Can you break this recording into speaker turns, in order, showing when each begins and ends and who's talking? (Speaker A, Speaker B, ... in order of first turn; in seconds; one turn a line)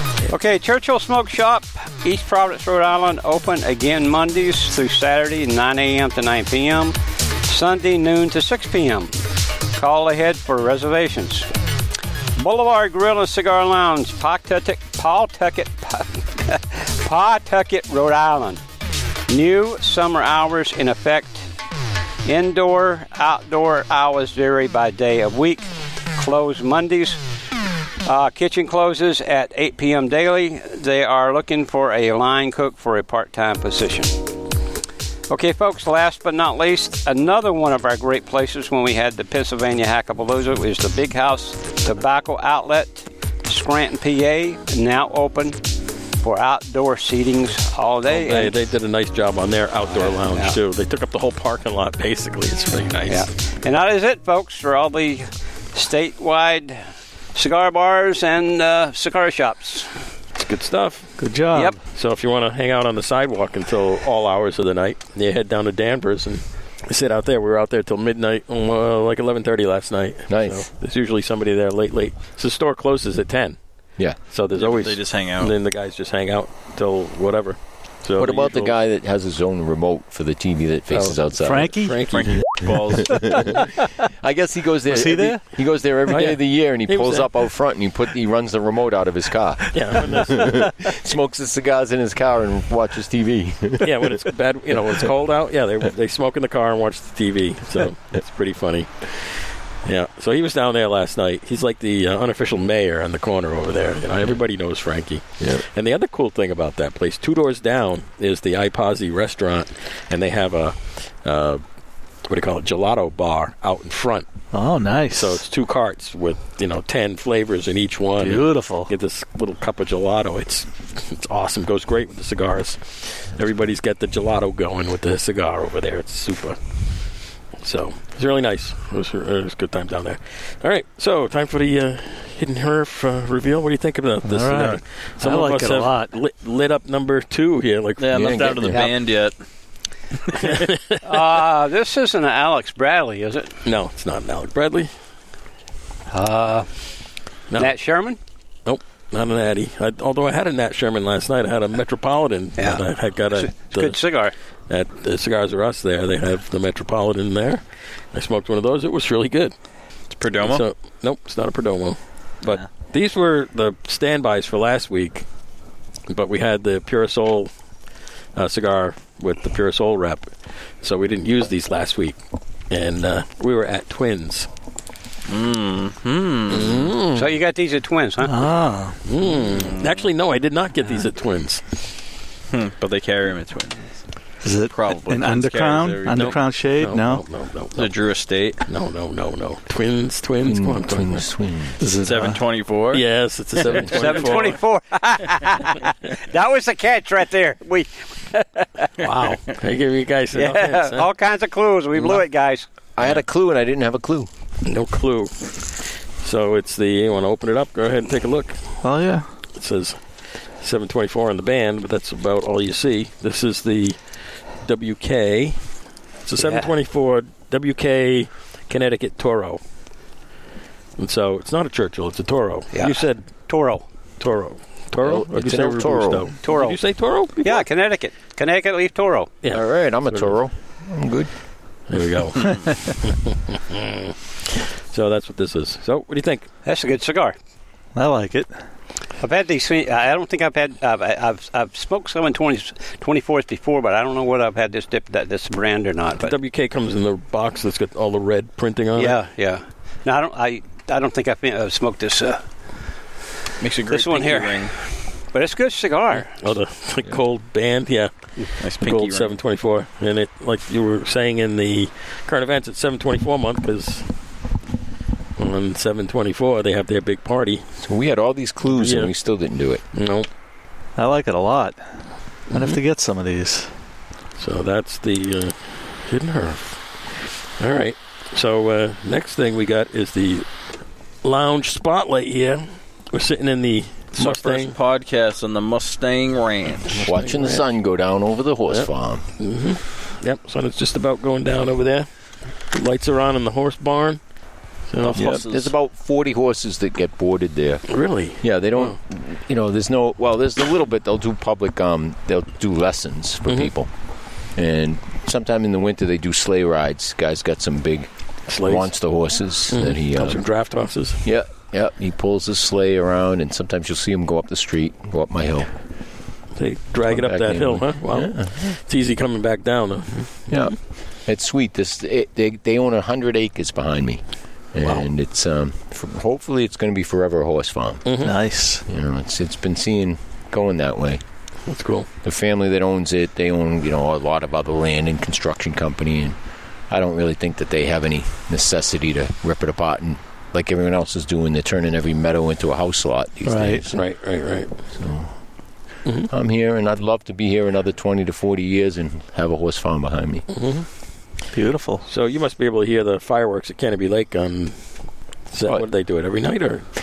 Speaker A: 0.3-9.2
Speaker A: 9.7-11.5
Speaker A: 12.4-18.6
Speaker A: 19.3-21.5
Speaker A: 22.2-27.2
Speaker A: 28.1-34.2
Speaker A: 35.3-45.6
Speaker A: 46.2-48.6
Speaker B: 48.1-53.3
Speaker A: 49.9-50.6
Speaker A: 53.1-56.8
Speaker A: 57.3-60.0
Speaker B: 60.4-61.2
Speaker C: 61.2-61.8
Speaker B: 61.8-73.6
Speaker D: 70.3-70.7
Speaker B: 74.2-78.7
Speaker E: 74.5-75.5
Speaker D: 78.2-81.8
Speaker B: 80.9-82.3
Speaker C: 81.4-82.1
Speaker E: 82.1-83.6
Speaker D: 83.0-94.2
Speaker C: 84.9-85.4
Speaker B: 86.1-87.3
Speaker B: 89.7-90.6
Speaker B: 93.8-111.6
Speaker B: 112.2-114.3
Speaker C: 114.5-115.4
Speaker B: 115.1-138.3
Speaker C: 118.2-118.9
Speaker C: 134.2-136.1
Speaker E: 138.0-139.3
Speaker D: 138.1-138.8
Speaker B: 140.3-141.2
Speaker A: 141.0-143.5
Speaker B: 143.6-144.9
Speaker A: 146.1-146.7
Speaker B: 147.5-147.8
Speaker A: 147.6-148.2
Speaker B: 148.7-154.0
Speaker A: 152.6-154.3
Speaker B: 154.7-159.6
Speaker E: 160.1-160.6
Speaker B: 160.4-165.3
Speaker B: 166.1-167.5
Speaker B: 168.3-172.2
Speaker B: 172.7-174.5
Speaker E: 175.3-176.9
Speaker B: 176.5-177.3
Speaker A: 177.2-178.5
Speaker C: 178.2-179.0
Speaker B: 179.1-181.6
Speaker E: 179.6-179.9
Speaker E: 182.5-183.9
Speaker C: 184.4-187.2
Speaker E: 184.7-186.4
Speaker B: 186.2-187.9
Speaker E: 187.8-188.6
Speaker B: 188.7-191.3
Speaker D: 190.4-191.8
Speaker C: 191.8-192.4
Speaker E: 192.0-193.0
Speaker B: 192.9-194.6
Speaker A: 193.8-199.0
Speaker E: 193.8-194.3
Speaker B: 199.0-201.1
Speaker A: 200.3-202.7
Speaker D: 203.0-204.3
Speaker B: 204.7-208.8
Speaker C: 208.8-209.3
Speaker B: 209.6-215.7
Speaker B: 216.2-219.6
Speaker A: 216.4-216.7
Speaker B: 221.0-223.3
Speaker A: 222.7-223.8
Speaker B: 224.2-227.7
Speaker D: 225.0-226.3
Speaker A: 226.4-226.8
Speaker A: 227.4-229.3
Speaker B: 229.4-230.3
Speaker D: 229.5-231.3
Speaker B: 231.9-236.5
Speaker A: 236.7-237.4
Speaker C: 237.9-238.6
Speaker A: 239.2-246.4
Speaker B: 246.2-249.2
Speaker A: 249.0-252.4
Speaker E: 253.6-254.7
Speaker A: 253.9-254.7
Speaker A: 255.3-256.3
Speaker B: 256.2-258.1
Speaker E: 258.6-259.4
Speaker B: 258.6-264.1
Speaker B: 265.4-267.6
Speaker D: 267.8-269.8
Speaker B: 268.8-269.1
Speaker B: 269.9-270.3
Speaker C: 271.0-271.9
Speaker C: 272.5-273.7
Speaker B: 272.5-272.8
Speaker B: 274.4-280.5
Speaker B: 281.2-284.8
Speaker E: 284.2-287.0
Speaker B: 286.9-287.6
Speaker D: 287.0-289.2
Speaker B: 288.7-292.1
Speaker B: 292.7-294.2
Speaker B: 294.9-295.3
Speaker E: 295.0-295.7
Speaker D: 295.1-297.9
Speaker B: 297.9-299.0
Speaker D: 298.4-303.9
Speaker D: 304.6-308.1
Speaker B: 308.5-308.9
Speaker D: 308.6-310.4
Speaker B: 309.7-311.2
Speaker D: 311.2-315.7
Speaker B: 316.6-320.7
Speaker D: 317.1-318.8
Speaker D: 320.5-328.1
Speaker B: 328.1-328.4
Speaker C: 328.2-328.9
Speaker D: 328.9-331.2
Speaker B: 331.7-332.1
Speaker D: 332.2-336.4
Speaker D: 336.9-344.0
Speaker C: 343.5-343.9
Speaker B: 343.9-344.8
Speaker D: 344.9-345.4
Speaker B: 346.1-346.3
Speaker D: 346.3-350.5
Speaker B: 350.5-350.9
Speaker C: 351.5-352.1
Speaker B: 352.1-354.9
Speaker B: 355.5-356.9